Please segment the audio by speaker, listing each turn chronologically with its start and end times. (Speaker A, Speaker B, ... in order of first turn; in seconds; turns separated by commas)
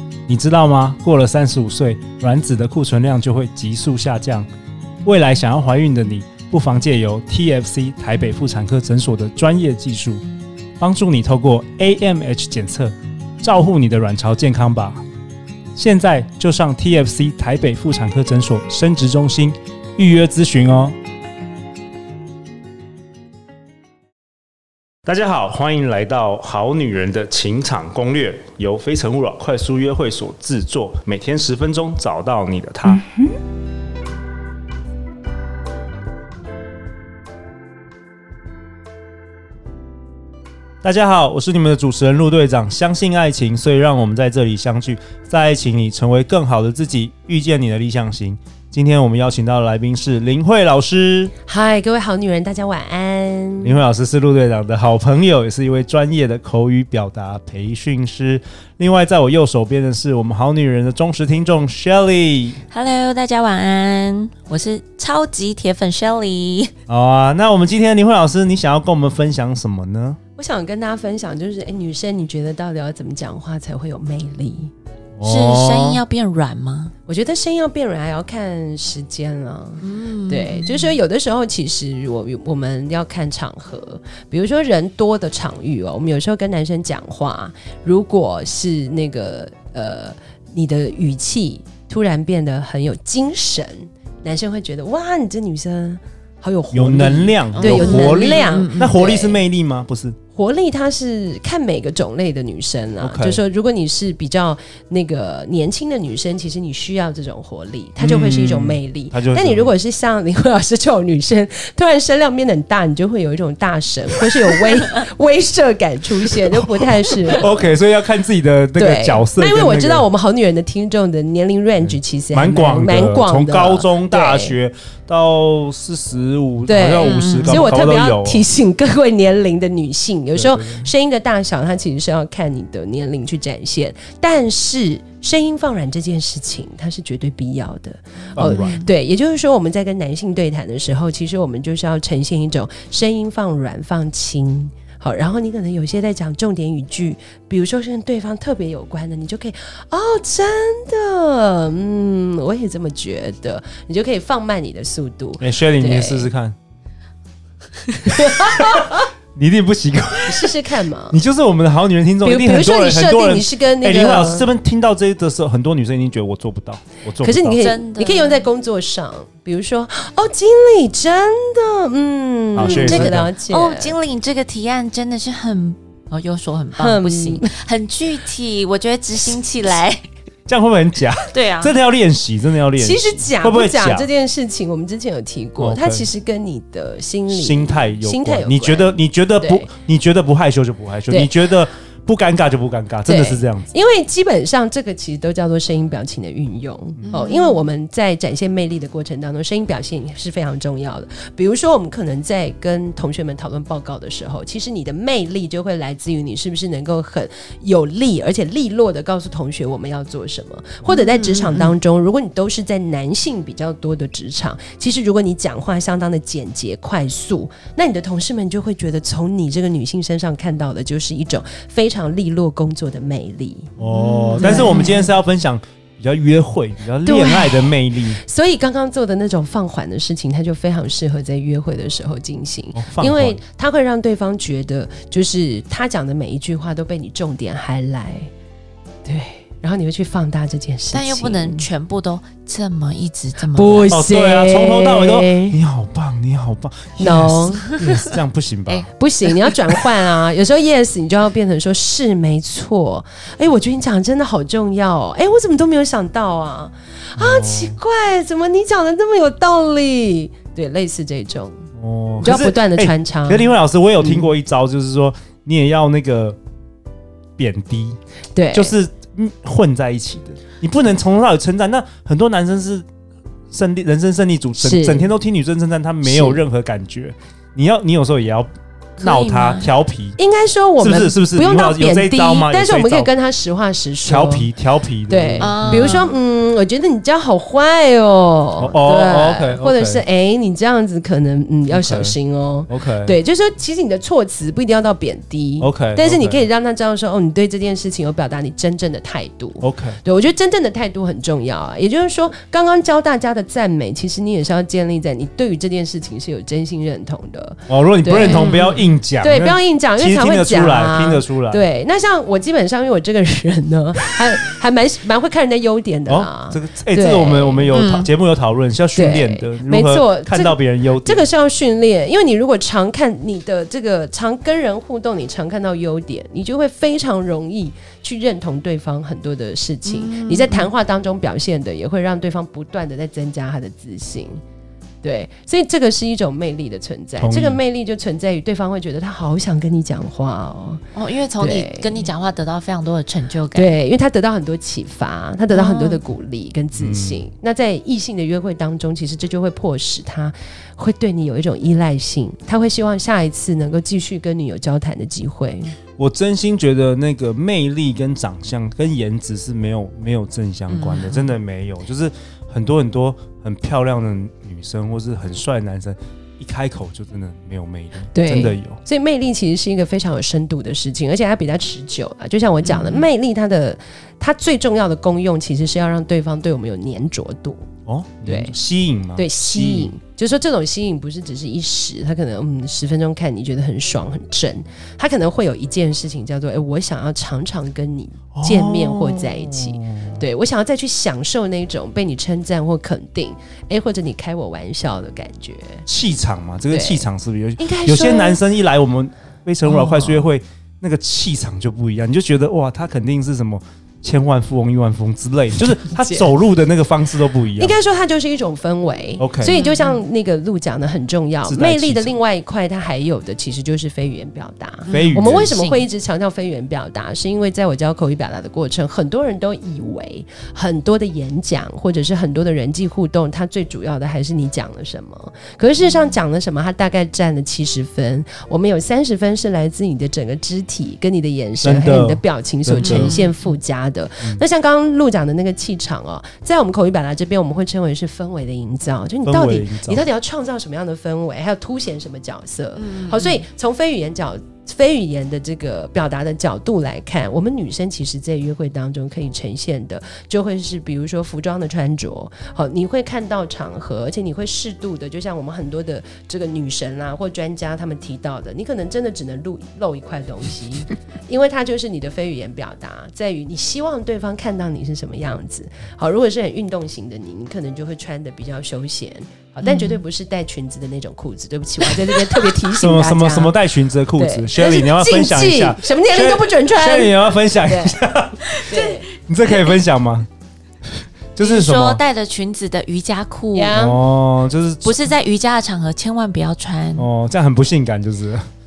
Speaker A: 0.3-4.5, Speaker A: 5.0-10.2, Speaker A: 10.8-15.0, Speaker A: 15.8-20.9, Speaker A: 25.1-33.1, Speaker A: 40.8-51.3, Speaker B: 51.5-53.8, Speaker A: 53.6-62.6, Speaker C: 62.7-66.7, Speaker A: 66.9-70.2, Speaker B: 70.4-74.7, Speaker A: 75.2-76.0, Speaker C: 75.2-76.9, Speaker B: 77.1-99.4, Speaker C: 79.8-81.0, Speaker A: 96.7-100.2, Speaker C: 97.5-98.9, Speaker B: 100.3-117.7, Speaker A: 103.0-103.4, Speaker A: 108.0-109.7, Speaker A: 117.3-120.0, Speaker B: 118.8-124.5, Speaker A: 121.8-128.4, Speaker B: 126.7-156.3, Speaker C: 127.0-127.7, Speaker A: 130.3-130.9, Speaker A: 138.3-138.8, Speaker C: 138.4-138.9, Speaker A: 155.4-156.6, Speaker B: 158.1-159.0, Speaker A: 158.3-160.5, Speaker B: 160.2-161.2, Speaker A: 161.1-167.6, Speaker B: 162.2-164.5, Speaker B: 167.2-174.0, Speaker C: 167.6-168.4, Speaker A: 172.5-173.3, Speaker C: 172.6-180.0, Speaker B: 176.8-177.5, Speaker A: 180.5-184.1, Speaker C: 181.3-181.7, Speaker B: 182.8-189.7, Speaker A: 185.6-186.1, Speaker A: 187.3-193.7, Speaker B: 193.1-223.7, Speaker C: 197.0-197.6, Speaker C: 210.9-211.7, Speaker A: 223.8-228.2, Speaker C: 223.9-225.0, Speaker B: 224.4-225.1, Speaker B: 227.0-238.3, Speaker A: 232.7-233.4, Speaker B: 239.0-241.7, Speaker C: 240.9-243.9, Speaker B: 243.5-245.6, Speaker A: 243.9-248.9, Speaker B: 247.0-247.8, Speaker B: 248.9-261.6, Speaker A: 257.2-257.8, Speaker A: 261.8-266.4, Speaker B: 262.2-264.3, Speaker A: 267.4-268.0, Speaker B: 268.3-268.7, Speaker A: 268.5-272.9, Speaker A: 273.5-280.2, Speaker B: 274.6-275.1, Speaker B: 276.0-276.4, Speaker C: 279.0-279.7, Speaker B: 280.2-284.5, Speaker A: 280.8-283.1, Speaker A: 284.0-286.0, Speaker B: 285.1-308.5, Speaker C: 285.4-286.1, Speaker A: 288.6-290.0, Speaker A: 291.7-292.1, Speaker A: 292.7-293.1, Speaker A: 295.6-296.4, Speaker A: 299.6-300.0, Speaker A: 307.7-311.6, Speaker C: 308.2-308.8, Speaker B: 309.2-317.7, Speaker A: 316.1-321.3, Speaker C: 317.7-318.1, Speaker B: 318.9-334.4, Speaker C: 329.9-330.7, Speaker B: 335.0-340.8, Speaker A: 337.2-337.6, Speaker C: 340.9-343.8, Speaker B: 341.4-342.1, Speaker B: 343.5-355.8, Speaker C: 345.5-346.0, Speaker A: 346.8-347.2, Speaker A: 356.0-368.8, Speaker C: 360.7-361.4, Speaker B: 368.1-377.6, Speaker C: 372.6-373.1, Speaker A: 377.9-379.9, Speaker B: 378.2-378.5, Speaker B: 379.1-395.8, Speaker A: 388.3-390.2, Speaker A: 395.9-407.8, Speaker B: 396.7-397.0, Speaker B: 397.6-398.4, Speaker B: 399.6-400.3, Speaker B: 406.0-406.3, Speaker B: 407.6-473.6, Speaker A: 409.2-409.5, Speaker C: 409.4-409.9, Speaker A: 411.4-412.1, Speaker C: 414.9-415.9, Speaker A: 414.9-415.5, Speaker A: 431.6-433.2, Speaker C: 432.8-433.3, Speaker A: 439.2-440.0, Speaker C: 442.8-443.4, Speaker C: 469.6-470.0, Speaker A: 472.7-480.3, Speaker B: 474.2-478.0, Speaker B: 478.7-479.1, Speaker A: 481.3-482.0, Speaker C: 481.4-483.7, Speaker B: 483.5-484.0, Speaker A: 483.7-485.0, Speaker C: 484.8-487.1, Speaker A: 486.9-488.5